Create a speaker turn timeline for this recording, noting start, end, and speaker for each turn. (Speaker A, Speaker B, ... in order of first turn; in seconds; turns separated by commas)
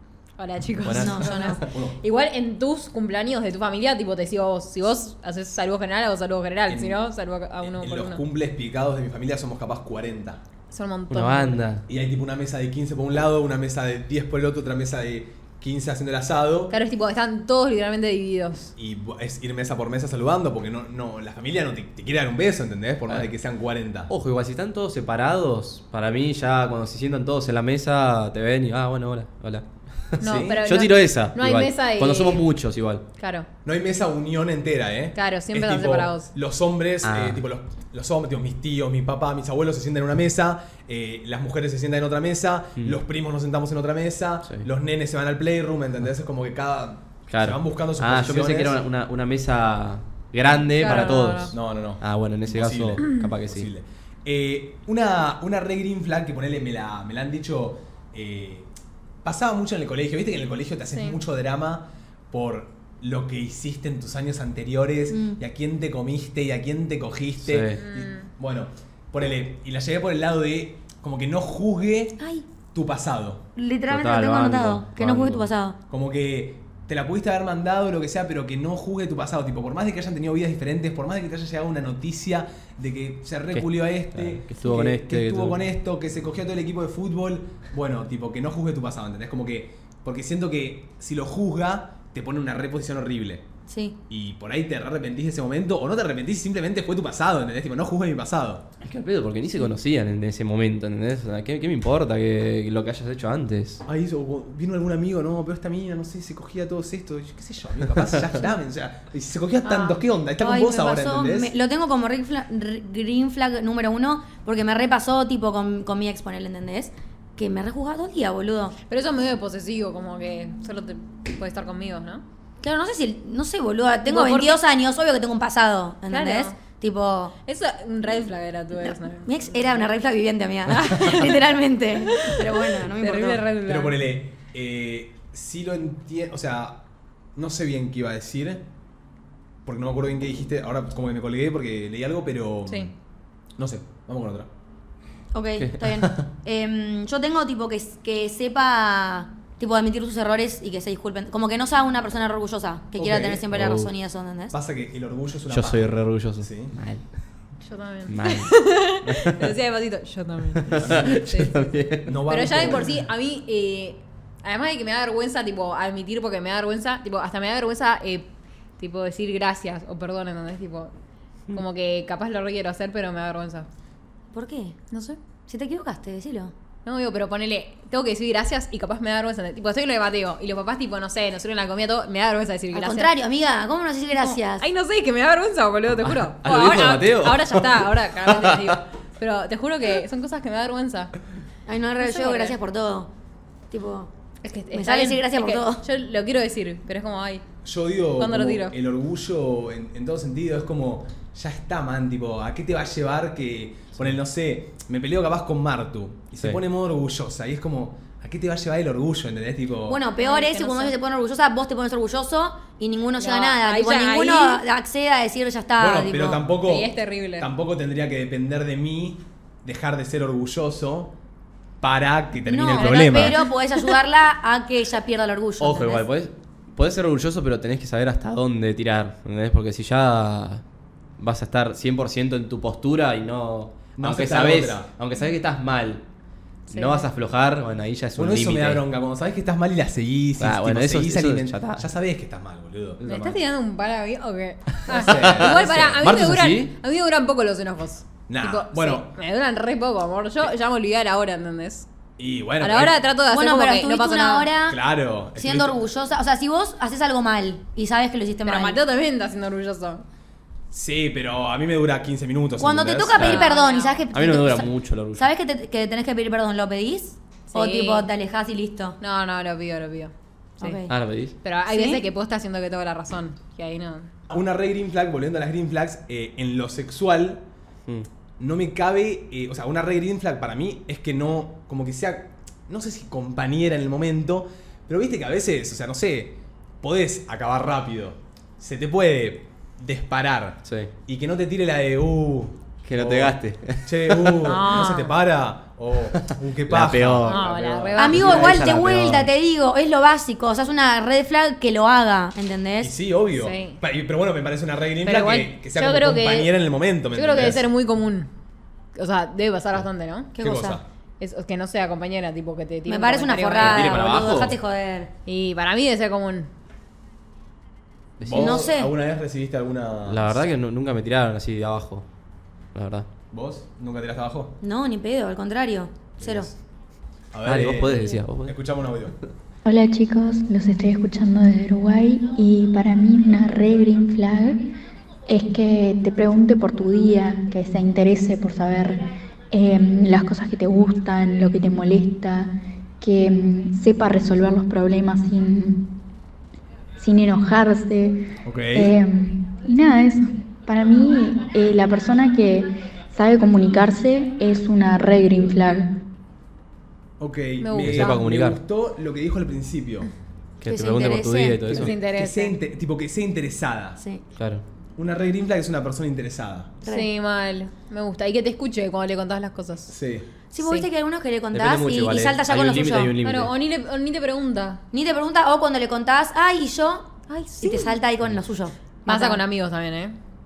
Speaker A: 0.4-8.2, Speaker B: 0.8-1.5, Speaker C: 0.9-1.6, Speaker D: 1.6-1.9, Speaker D: 6.7-7.0, Speaker D: 7.6-10.4, Speaker A: 10.7-11.6, Speaker B: 11.1-11.8, Speaker D: 11.9-16.7, Speaker A: 16.7-18.7, Speaker D: 18.8-24.1, Speaker B: 24.1-33.0, Speaker D: 30.2-30.6, Speaker A: 30.2-32.4, Speaker A: 33.2-33.5, Speaker D: 33.6-48.8, Speaker A: 35.1-36.3, Speaker B: 37.0-37.4, Speaker B: 47.3-53.7, Speaker A: 50.8-51.5, Speaker D: 51.5-58.7, Speaker D: 59.2-72.2, Speaker C: 65.1-65.4, Speaker B: 67.4-67.8, Speaker A: 67.8-68.3, Speaker C: 72.2-72.4, Speaker D: 72.7-73.4, Speaker C: 73.5-75.8, Speaker B: 73.9-75.5, Speaker D: 75.9-93.4, Speaker B: 83.5-85.6, Speaker C: 93.7-94.0, Speaker D: 94.1-98.6, Speaker B: 98.8-103.8, Speaker D: 103.8-111.5, Speaker C: 110.4-118.7, Speaker A: 118.9-122.2, Speaker C: 122.6-127.3, Speaker A: 124.0-124.6, Speaker A: 126.1-126.5, Speaker A: 127.5-129.6, Speaker C: 128.8-133.4, Speaker A: 130.7-131.4, Speaker A: 132.1-134.0, Speaker D: 133.6-136.8, Speaker D: 137.3-138.6, Speaker D: 139.6-142.9, Speaker D: 143.6-144.5, Speaker C: 145.3-154.6, Speaker B: 145.6-146.2, Speaker D: 152.9-153.7, Speaker B: 153.5-153.9, Speaker D: 154.5-156.7, Speaker B: 155.5-157.0, Speaker A: 157.6-161.5, Speaker B: 158.1-159.5, Speaker B: 160.6-162.2, Speaker D: 160.8-161.2, Speaker D: 162.1-162.9, Speaker A: 162.3-170.9, Speaker A: 171.5-173.7, Speaker C: 174.3-174.8, Speaker A: 174.9-175.2, Speaker C: 175.5-176.5, Speaker A: 176.8-183.1, Speaker C: 182.7-184.7, Speaker A: 184.2-191.1, Speaker B: 186.0-188.8, Speaker C: 191.7-193.1, Speaker A: 192.0-192.6, Speaker C: 193.7-194.1, Speaker A: 194.4-197.4, Speaker C: 194.7-195.8, Speaker D: 197.6-210.0, Speaker A: 198.2-198.7, Speaker C: 209.8-216.4, Speaker A: 210.2-210.9, Speaker A: 213.2-214.6, Speaker D: 215.8-221.1, Speaker A: 216.6-217.5, Speaker D: 221.8-223.4, Speaker C: 222.5-226.1, Speaker A: 222.7-223.9, Speaker B: 225.6-230.6, Speaker B: 231.2-236.0, Speaker D: 234.0-234.9, Speaker A: 236.7-237.1, Speaker B: 236.7-238.8, Speaker D: 238.2-243.0, Speaker B: 240.4-241.9, Speaker B: 243.0-243.4, Speaker A: 243.0-251.9, Speaker D: 244.9-246.1, Speaker B: 244.9-246.7, Speaker D: 248.3-249.1, Speaker D: 252.2-253.0, Speaker A: 252.6-254.5, Speaker C: 253.3-254.8, Speaker D: 254.7-255.8, Speaker C: 255.4-258.8, Speaker A: 258.4-260.0, Speaker D: 260.7-263.3, Speaker C: 262.6-269.0, Speaker B: 263.1-263.5, Speaker A: 263.2-264.0, Speaker B: 264.1-265.2, Speaker A: 267.5-268.1, Speaker A: 269.0-270.8, Speaker C: 270.6-270.9, Speaker B: 270.9-271.4, Speaker A: 271.4-274.1, Speaker C: 271.7-272.0, Speaker D: 274.3-277.4, Speaker D: 278.4-298.6, Speaker B: 290.6-290.9, Speaker B: 292.8-294.5, Speaker A: 294.4-295.2, Speaker B: 296.7-297.5, Speaker A: 297.2-298.4, Speaker C: 297.9-302.9, Speaker B: 298.1-299.3, Speaker D: 302.8-307.6, Speaker A: 303.4-303.8, Speaker A: 305.0-306.6, Speaker A: 307.1-308.3, Speaker A: 308.9-310.3, Speaker C: 310.3-310.8, Speaker D: 310.4-310.8, Speaker A: 311.2-314.0, Speaker C: 312.9-315.1, Speaker B: 313.6-314.6, Speaker A: 315.2-316.5, Speaker B: 318.2-318.6, Speaker D: 318.2-320.5, Speaker C: 318.3-318.9, Speaker B: 320.1-322.1, Speaker B: 322.7-323.1, Speaker D: 323.3-324.6, Speaker C: 324.6-326.5, Speaker D: 326.2-326.6, Speaker D: 327.3-329.2, Speaker B: 327.4-328.6, Speaker E: 329.6-334.7, Speaker E: 335.3-345.9, Speaker E: 347.0-355.9, Speaker D: 348.4-348.9, Speaker D: 357.2-360.1, Speaker A: 357.6-358.2, Speaker B: 357.8-358.6, Speaker B: 360.6-361.9, Speaker C: 360.6-361.7, Speaker D: 361.7-364.0, Speaker A: 361.7-362.6, Speaker C: 364.0-364.2, Speaker B: 364.4-364.6, Speaker D: 365.0-366.7, Speaker A: 366.8-369.9, Speaker D: 369.9-370.2, Speaker C: 370.5-373.1, Speaker A: 370.6-370.9, Speaker B: 371.5-373.5, Speaker A: 373.2-374.8, Speaker C: 374.9-379.4, Speaker A: 377.3-378.0, Speaker A: 379.1-380.2